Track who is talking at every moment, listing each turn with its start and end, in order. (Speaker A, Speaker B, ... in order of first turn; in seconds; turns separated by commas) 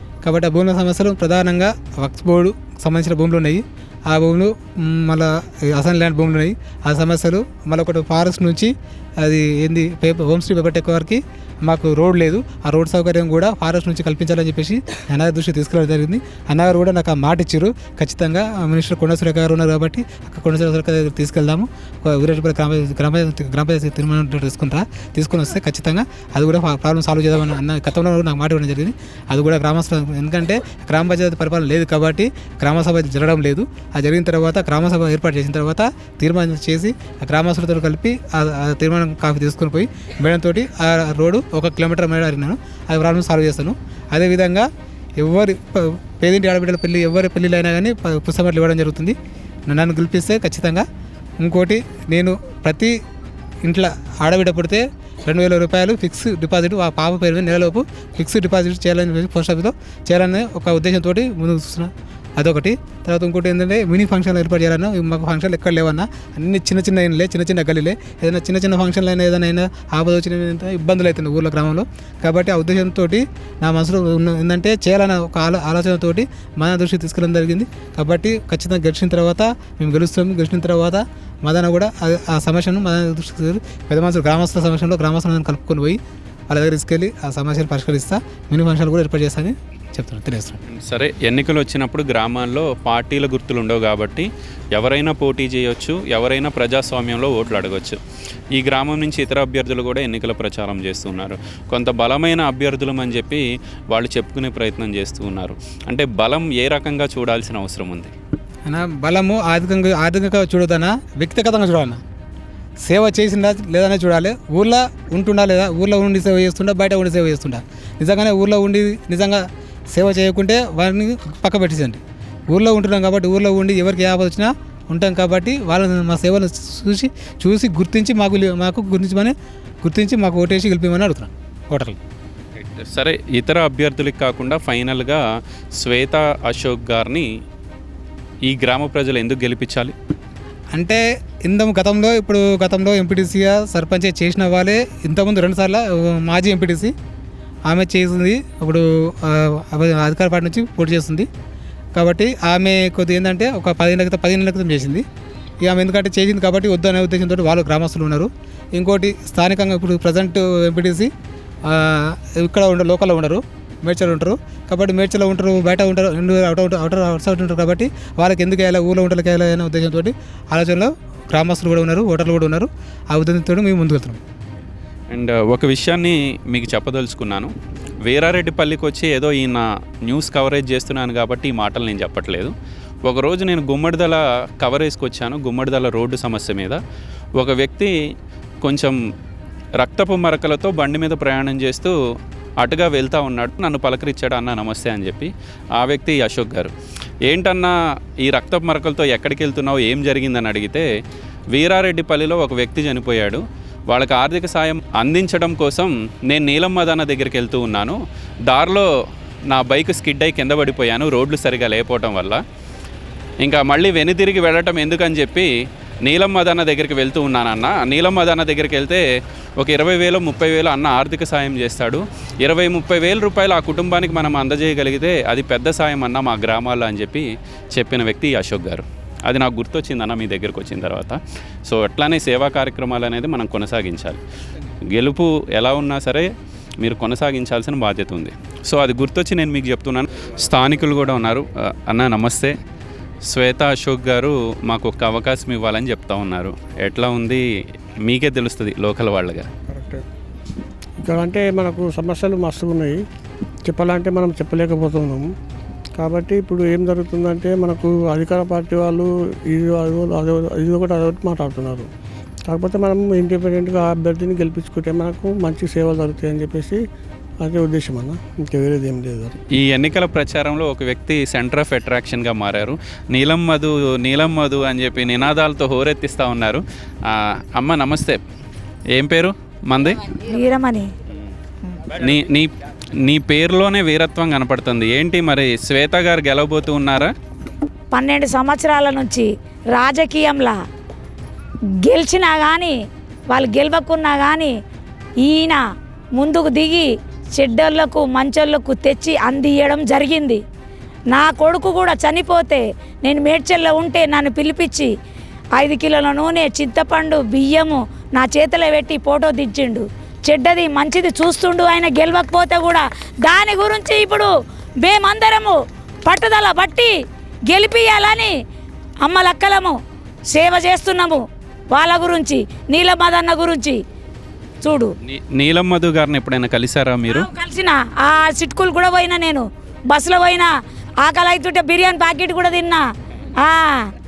Speaker A: 0.2-44.7, Speaker A: 45.2-49.2, Speaker A: 49.7-50.9, Speaker A: 51.4-53.0, Speaker A: 53.6-86.0, Speaker A: 86.5-90.6, Speaker B: 90.7-98.0, Speaker B: 98.5-108.1, Speaker A: 108.7-112.0, Speaker A: 112.8-122.0, Speaker A: 122.5-132.0, Speaker B: 132.6-135.2, Speaker B: 135.8-137.3, Speaker B: 138.5-139.9, Speaker A: 140.7-146.9, Speaker A: 147.7-151.3, Speaker A: 151.9-155.0, Speaker A: 155.6-161.1, Speaker A: 161.7-174.2, Speaker B: 175.1-177.5, Speaker B: 178.1-182.5, Speaker B: 183.1-186.8, Speaker B: 187.4-187.9, Speaker B: 188.6-189.0, Speaker B: 189.8-191.9, Speaker B: 192.6-196.7, Speaker B: 197.3-197.7, Speaker B: 198.2-200.8, Speaker B: 201.5-208.0, Speaker B: 208.5-208.9, Speaker B: 209.5-212.4, Speaker B: 213.4-215.5, Speaker B: 216.1-219.0, Speaker B: 219.6-234.2, Speaker B: 234.9-236.3, Speaker B: 236.8-242.5, Speaker B: 243.3-247.4, Speaker B: 248.0-249.5, Speaker C: 249.7-250.1, Speaker C: 251.0-253.0, Speaker C: 253.7-255.3, Speaker C: 256.0-261.9, Speaker C: 262.5-266.8, Speaker C: 267.4-269.4, Speaker B: 269.6-278.2, Speaker B: 278.9-280.1, Speaker D: 280.3-280.9, Speaker B: 282.0-282.5, Speaker B: 283.0-287.1, Speaker D: 287.9-290.6, Speaker D: 291.8-292.8, Speaker D: 293.3-294.5, Speaker D: 295.2-295.6, Speaker D: 296.1-300.4, Speaker D: 301.1-304.9, Speaker D: 305.6-314.3, Speaker D: 314.8-316.9, Speaker D: 317.5-318.3, Speaker D: 319.0-319.8, Speaker D: 320.3-323.8, Speaker D: 324.6-324.9, Speaker B: 325.1-327.3, Speaker D: 327.1-330.5, Speaker D: 331.0-332.8, Speaker D: 333.4-333.9